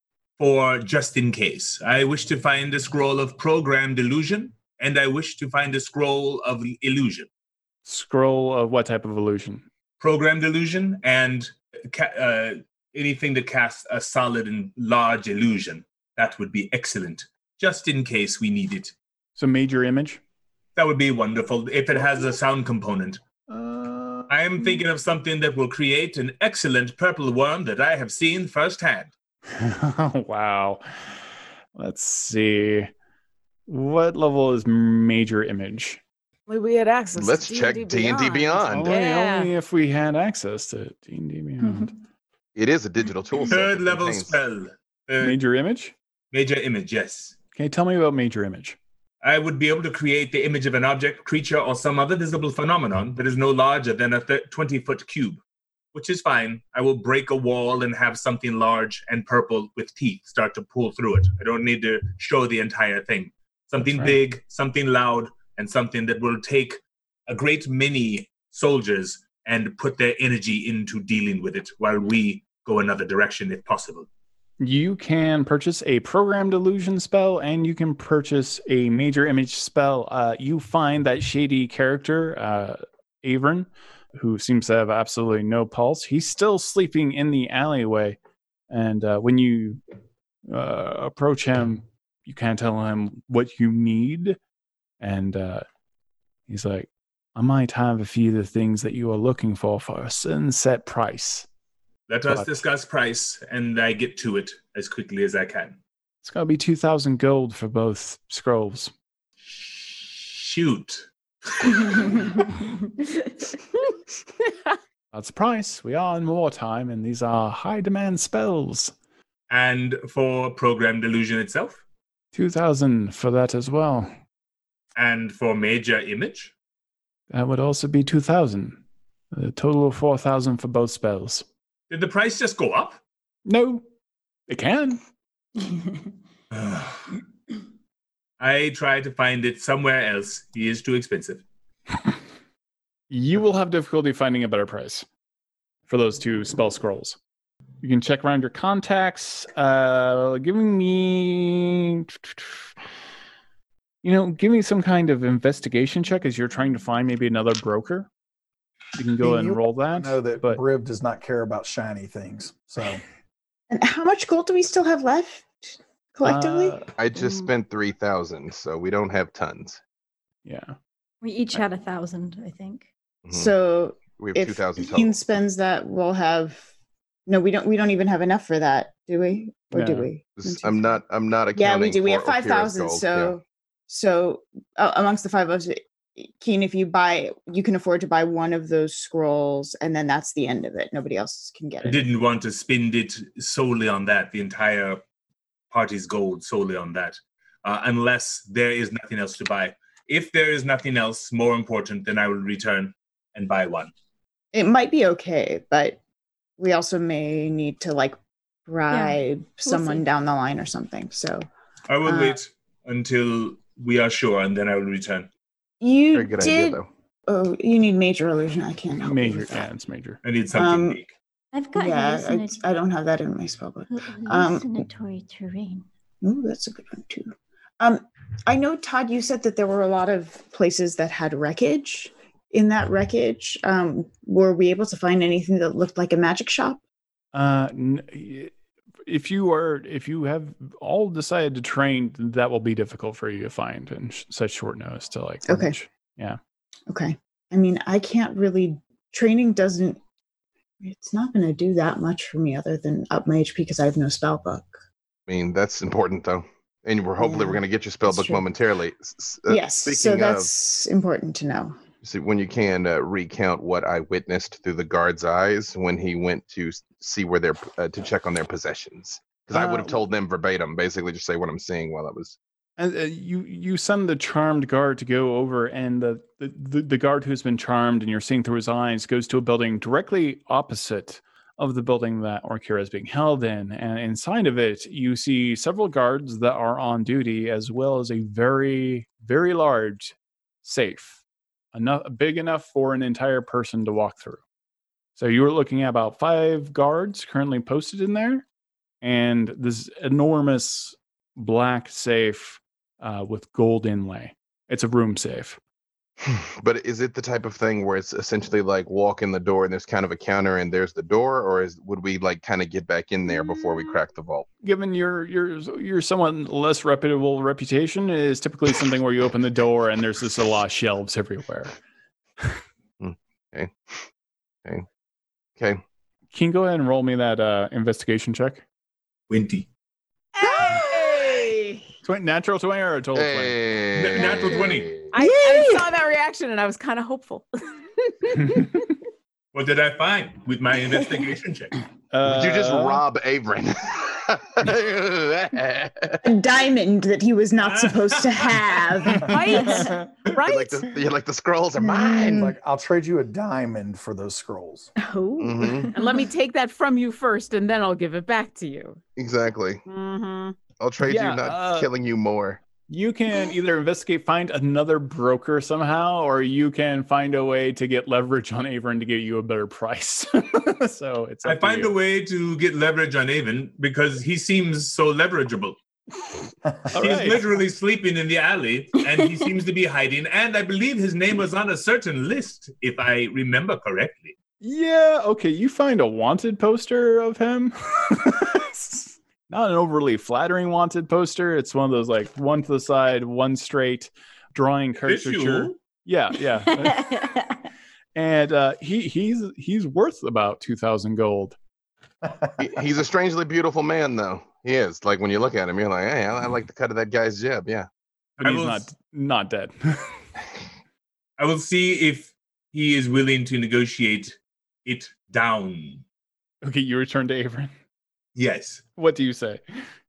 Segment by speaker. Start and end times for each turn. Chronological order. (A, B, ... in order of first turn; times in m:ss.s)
0:00.4-0:07.3 A
0:07.8-0:09.6 B
0:10.0-0:18.9 A
0:19.4-0:20.2 B
0:20.8-0:23.2 A
0:23.5-0:24.3 B
0:24.3-0:29.1 A
0:29.5-0:30.8 B
0:31.7-0:32.9 B
0:33.7-0:36.0 B
0:36.5-0:39.5 C
0:37.1-0:38.9 D
0:38.7-0:41.9 B
0:42.6-0:44.4 D
0:43.5-0:45.3 A
0:45.2-0:45.9 B
0:46.3-0:47.4 A
0:47.5-0:48.8 B
0:49.2-0:55.4 A
0:55.9-1:14.1 A
1:03.8-1:04.2 B
1:14.6-1:28.2 B
1:28.7-1:29.8 B
1:30.5-1:34.4 B
1:35.0-1:35.6 B
1:36.5-1:41.5 B
1:42.1-1:45.8 A
1:42.3-1:42.6 B
1:46.2-1:48.9 B
1:49.4-1:52.2 A
1:55.1-1:58.9 B
1:59.5-2:01.8 A
2:02.3-2:04.1 B
2:05.0-2:06.5 A
2:07.3-2:08.8 B
2:09.3-2:11.4 B
2:11.9-2:13.0 A
2:13.4-2:13.8 B
2:14.5-2:15.0 B
2:16.5-2:17.2 A
2:18.4-2:21.4 A
2:23.1-2:25.0 B
2:25.9-2:27.2 B
2:27.8-2:32.7 B
2:34.0-2:38.1 B
2:39.0-2:40.6 B
2:39.2-2:43.0 E
2:43.7-2:46.8 F
2:46.2-2:46.9 B
2:47.0-2:49.8 D
2:50.4-2:50.8 B
2:51.2-2:52.9 G
2:53.2-2:53.5 D
2:53.3-2:56.7 F
2:54.2-2:55.2 D
2:57.3-3:01.0 F
2:59.7-3:00.1 B
3:00.4-3:03.3 D
3:01.5-3:12.0 F
3:11.8-3:15.0 A
3:15.7-3:23.9 A
3:24.5-3:26.0 F
3:26.6-3:31.4 F
3:28.9-3:30.0 G
3:31.9-3:35.3 A
3:32.0-3:32.4 F
3:35.8-3:39.7 F
3:36.1-3:36.9 D
3:39.0-3:40.2 B
3:40.2-3:41.1 A
3:40.5-3:41.0 F
3:41.5-3:42.6 G
3:41.7-3:44.8 F
3:43.9-3:45.8 G
3:46.2-3:56.8 F
3:57.3-3:58.5 B
3:59.0-4:06.4 B
4:05.4-4:05.7 F
4:06.9-4:10.0 F
4:10.8-4:14.8 F
4:15.3-4:20.5 D
4:17.2-4:18.4 F
4:19.5-4:21.8 F
4:22.0-4:32.4 D
4:29.5-4:30.0 B
4:32.8-4:51.2 B
4:51.7-4:54.4 B
4:55.2-4:58.4 B
4:59.0-5:05.6 B
5:06.2-5:14.5 D
5:14.6-5:21.7 B
5:23.0-5:23.9 D
5:26.3-5:28.6 B
5:29.3-5:29.7 A
5:30.3-5:31.8 C
5:32.0-5:33.6 B
5:33.2-5:35.1 D
5:33.9-5:34.9 A
5:35.1-5:38.8 C
5:38.4-5:38.7 B
5:39.5-5:41.7 A
5:42.1-5:43.0 B
5:42.2-5:46.2 D
5:46.2-5:49.6 F
5:47.6-5:48.8 A
5:49.2-5:50.9 C
5:49.6-5:49.8 G
5:50.4-5:52.5 D
5:51.8-5:52.5 F
5:52.4-5:54.9 E
5:55.0-5:55.9 G
5:55.4-5:55.9 D
5:55.9-5:59.0 C
5:59.2-5:59.8 D
5:59.8-6:00.6 C
6:00.8-6:02.6 D
6:01.0-6:01.9 B
6:02.9-6:11.9 B
6:11.4-6:15.8 A
6:16.9-6:17.4 B
6:16.9-6:24.3 A
6:24.6-6:37.1 B
6:35.0-6:35.8 A
6:36.8-6:37.4 G
6:38.1-6:41.6 B
6:42.6-6:47.9 D
6:48.4-6:50.2 B
6:48.4-6:48.9 A
6:51.4-6:56.0 A
6:56.6-6:57.7 B
6:58.3-6:58.8 A
6:59.0-6:59.6 B